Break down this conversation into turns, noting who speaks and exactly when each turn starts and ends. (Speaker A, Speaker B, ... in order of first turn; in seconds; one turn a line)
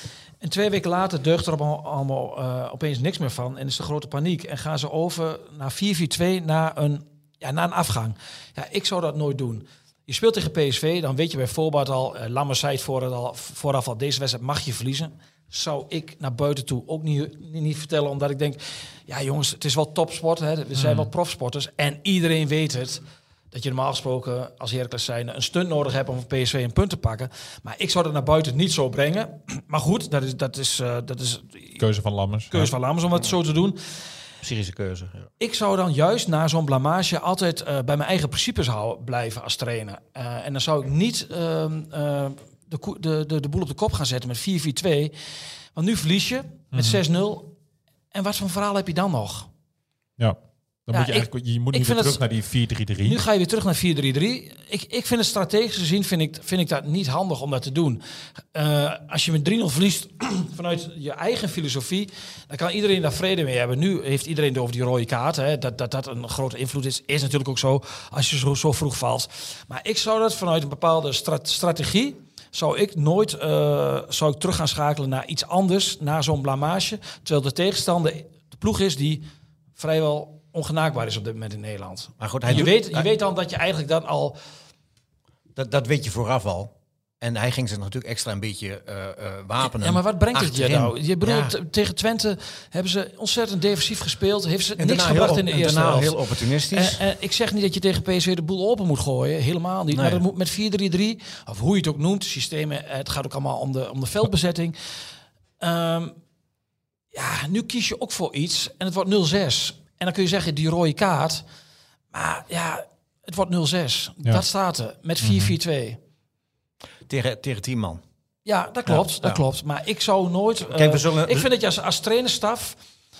Speaker A: 0.4-31.8
Speaker B: 20.8-21.1
Speaker B: 31.8-32.7
Speaker A: 32.5-33.8
Speaker C: 34.4-35.3
Speaker A: 35.4-45.1
Speaker A: 45.7-47.5
Speaker B: 46.7-47.0
Speaker A: 48.1-49.5
Speaker B: 50.2-53.2
Speaker A: 50.9-52.2
Speaker A: 53.0-58.0
Speaker A: 58.5-79.2
Speaker A: 79.8-84.4
Speaker C: 82.2-83.1
Speaker C: 85.5-91.5
Speaker A: 89.6-104.8
Speaker C: 94.8-97.0
Speaker C: 99.9-100.2
Speaker A: 105.6-106.2
Speaker A: 107.1-111.4
Speaker A: 112.1-116.0
Speaker B: 115.2-115.6
Speaker C: 117.1-118.0
Speaker A: 118.4-122.8
Speaker C: 118.9-119.4
Speaker C: 120.7-121.5